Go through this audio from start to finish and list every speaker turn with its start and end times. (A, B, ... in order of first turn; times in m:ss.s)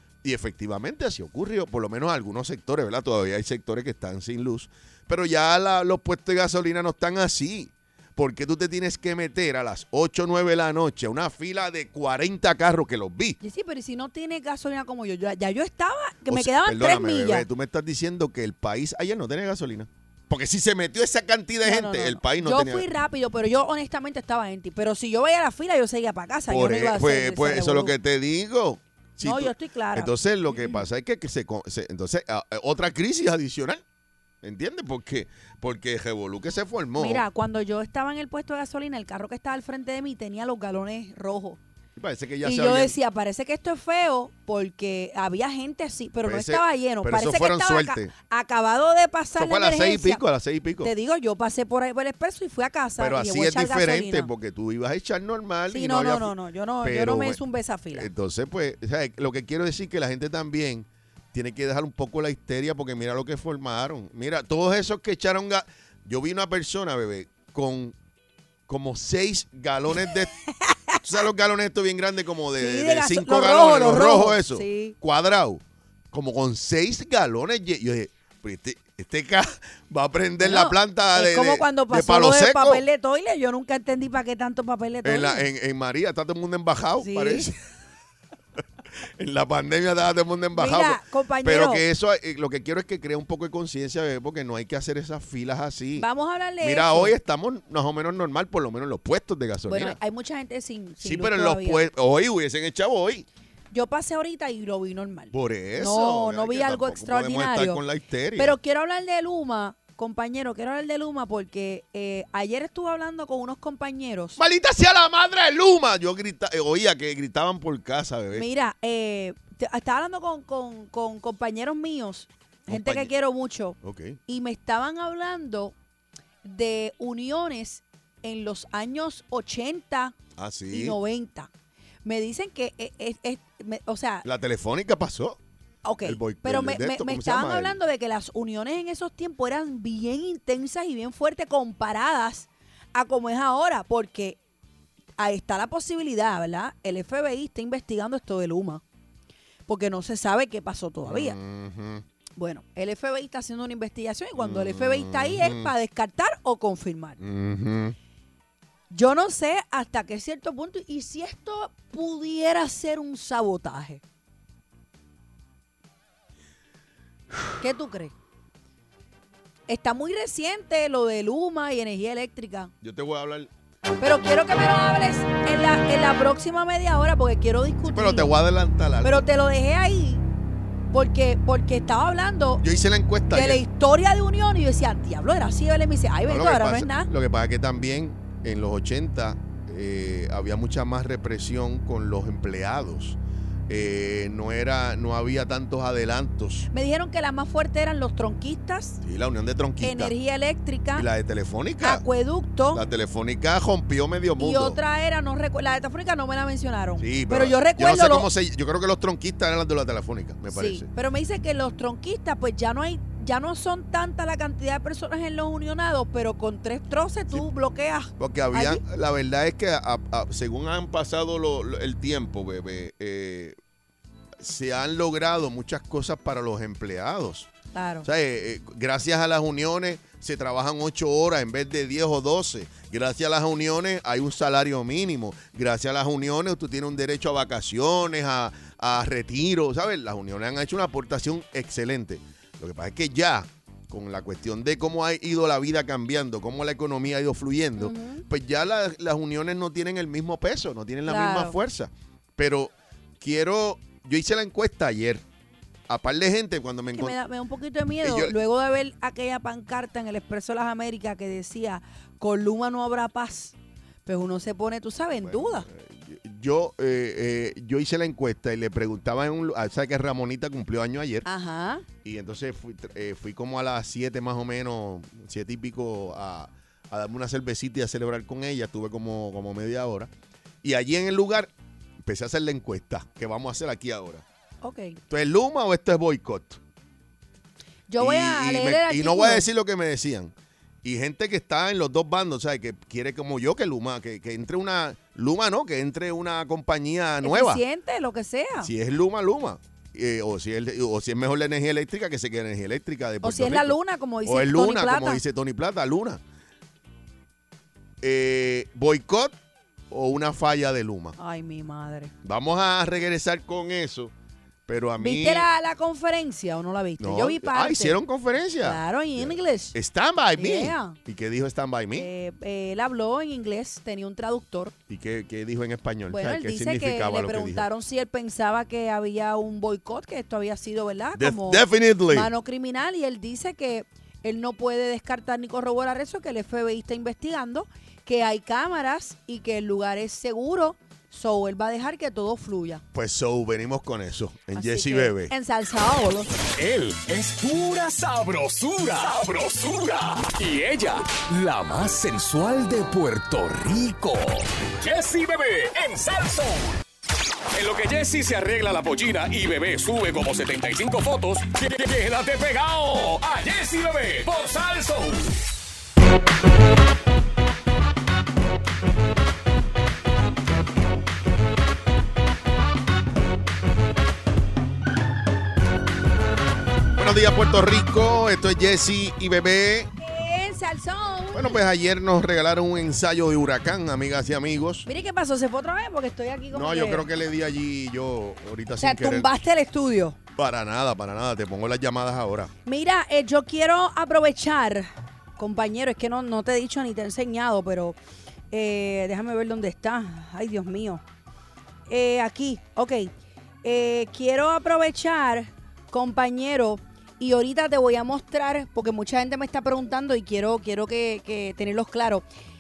0:00.2-0:13.4 A
0:13.4-0:17.5 B
0:16.3-0:22.9 A
0:21.6-0:27.9 B
0:26.5-0:33.8 A
0:29.2-0:30.9 B
0:34.4-0:37.2 A
0:37.0-0:41.6 B
0:42.0-0:43.0 A
0:42.4-0:50.2 B
0:46.2-0:48.1 A
0:49.4-0:50.9 A
0:50.8-0:54.3 B
0:53.0-0:57.4 A
0:55.7-0:58.1 B
0:57.9-1:08.0 A
1:08.7-1:10.3 A
1:10.7-1:11.0 B
1:11.0-1:15.6 A
1:12.6-1:15.0 B
1:16.1-1:22.8 A
1:20.4-1:25.4 B
1:25.0-1:27.6 A
1:27.0-1:27.5 B
1:29.0-1:36.1 A
1:30.6-1:31.8 B
1:36.0-1:37.2 B
1:36.6-1:40.0 A
1:39.7-1:41.8 B
1:41.0-1:43.3 A
1:43.7-1:47.8 B
1:45.3-1:48.6 A
1:48.4-1:54.4 B
1:54.4-1:58.5 A
1:58.3-2:05.7 B
2:02.7-2:03.1 A
2:03.8-2:04.2 A
2:06.4-2:10.2 B
2:10.4-2:11.0 A
2:10.7-2:11.5 B
2:12.0-2:14.3 B
2:14.2-2:15.4 A
2:15.8-2:24.4 B
2:16.0-2:17.8 A
2:25.2-2:28.8 B
2:29.7-2:31.4 B
2:31.0-2:32.0 A
2:32.4-2:37.2 B
2:34.4-2:35.7 A
2:37.2-2:38.0 A
2:38.9-2:44.0 B
2:47.6-2:48.1 B
2:49.7-2:52.7 B
2:52.8-2:53.5 A
2:54.0-2:58.4 B
2:57.9-2:59.2 A
2:59.0-3:00.2 B
3:00.9-3:02.6 B
3:02.6-3:03.6 A
3:03.3-3:07.1 B
3:06.3-3:16.7 A
3:16.7-3:19.0 B
3:19.0-3:20.1 A
3:19.8-3:21.1 B
3:21.0-3:22.0 A
3:21.8-3:22.8 B
3:22.7-3:24.8 A
3:24.4-3:28.3 B
3:27.0-3:30.9 A
3:30.5-3:38.8 B
3:38.2-3:43.6 A
3:44.4-3:47.5 A
3:47.7-3:48.1 B
3:48.0-4:15.2 A
4:07.8-4:08.3 B
4:11.1-4:11.6 B
4:15.9-4:17.2 A
4:17.0-4:25.7 B
4:18.0-4:18.3 A
4:25.2-4:31.2 A
4:31.2-4:31.8 B
4:32.0-4:40.1 A
4:40.6-4:41.5 A
4:42.0-4:44.2 A
4:44.6-4:45.0 B
4:45.1-4:46.6 A
4:47.9-4:49.4 B
4:48.0-4:50.3 A
4:50.8-4:57.6 A
4:57.2-4:58.7 B
4:58.6-5:06.2 A
5:03.2-5:05.2 B
5:08.0-5:09.4 A
5:09.9-5:11.2 A
5:11.2-5:12.1 B
5:12.2-5:14.1 A
5:14.7-5:15.5 A
5:15.0-5:18.0 B
5:17.0-5:22.1 A
5:18.6-5:19.8 B
5:20.4-5:21.0 B
5:22.0-5:24.7 B
5:24.9-5:27.7 A
5:26.1-5:42.8 B
5:31.2-5:32.3 A
5:42.9-5:45.3 A
5:44.5-5:46.3 B
5:46.6-5:56.8 C
5:57.5-6:05.4 C
6:17.0-6:19.9 A
6:20.0-6:21.6 B
6:21.3-6:24.9 A
6:24.9-6:27.1 B
6:26.5-6:29.3 A
6:28.8-6:30.2 B
6:30.4-6:32.5 A
6:32.7-6:38.0 B
6:38.5-6:41.0 B
6:41.9-6:43.1 B
6:43.6-6:52.2 B